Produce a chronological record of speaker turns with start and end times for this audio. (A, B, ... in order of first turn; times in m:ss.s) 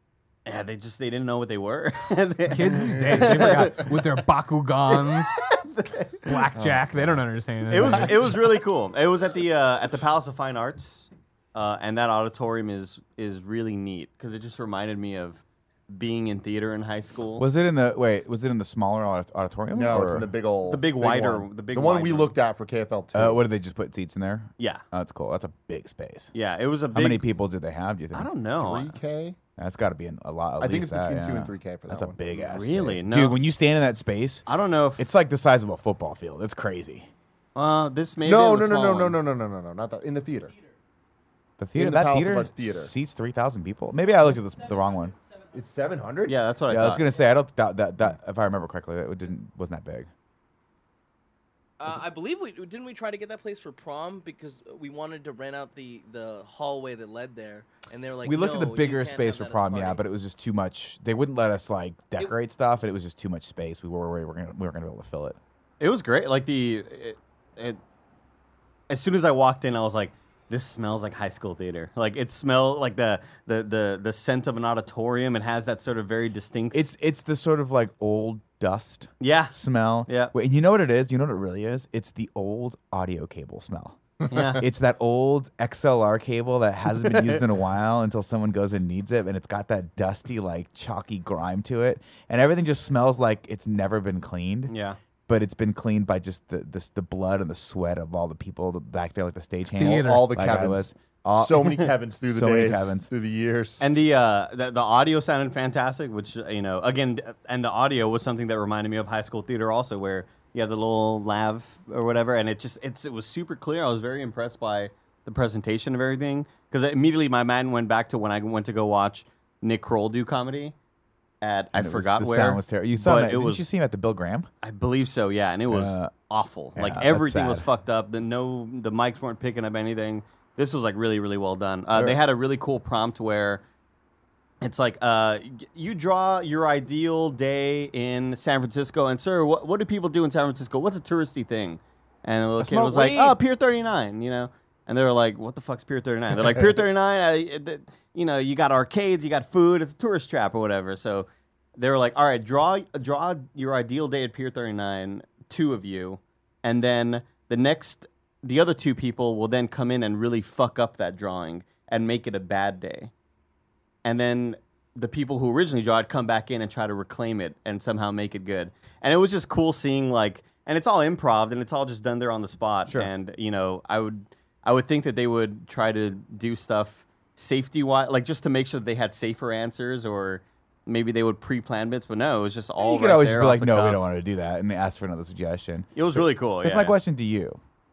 0:00.4-0:04.0 A
0:02.5-0:05.4 B
0:02.7-0:03.4 C
0:04.9-0:06.4 A
0:06.2-0:08.2 B
0:07.7-0:17.4 A
0:17.4-0:20.3 D
0:19.7-0:23.4 C
0:20.6-0:22.4 A
0:23.1-0:26.3 D
0:26.3-0:27.3 A
0:26.9-0:28.3 D
0:28.1-0:29.0 A
0:28.6-0:29.4 C
0:29.6-0:34.4 D
0:30.6-0:32.2 C
0:32.3-0:33.4 A
0:34.5-0:35.1 A
0:35.0-0:37.1 D
0:37.5-0:39.2 A
0:38.2-0:40.5 C
0:41.6-0:45.1 D
0:41.8-0:42.9 C
0:45.5-0:46.4 C
0:46.2-0:47.0 A
0:46.7-0:50.1 D
0:51.8-1:00.0 E
0:58.2-1:05.4 D
1:05.8-1:07.8 A
1:08.9-1:16.9 A
1:16.7-1:34.7 D
1:19.2-1:20.3 A
1:24.3-1:24.6 A
1:27.0-1:27.4 A
1:34.7-1:35.0 A
1:35.3-1:41.6 D
1:39.7-1:40.3 B
1:39.8-1:43.8 C
1:42.2-1:43.1 D
1:43.8-2:00.7 A
2:01.4-2:03.7 A
2:01.7-2:04.5 D
2:04.6-2:13.6 A
2:05.7-2:06.1 D
2:06.8-2:07.7 D
2:14.6-2:43.1 A
2:22.6-2:23.4 D
2:44.0-3:04.0 A
3:02.8-3:07.6 D
3:05.9-3:06.9 A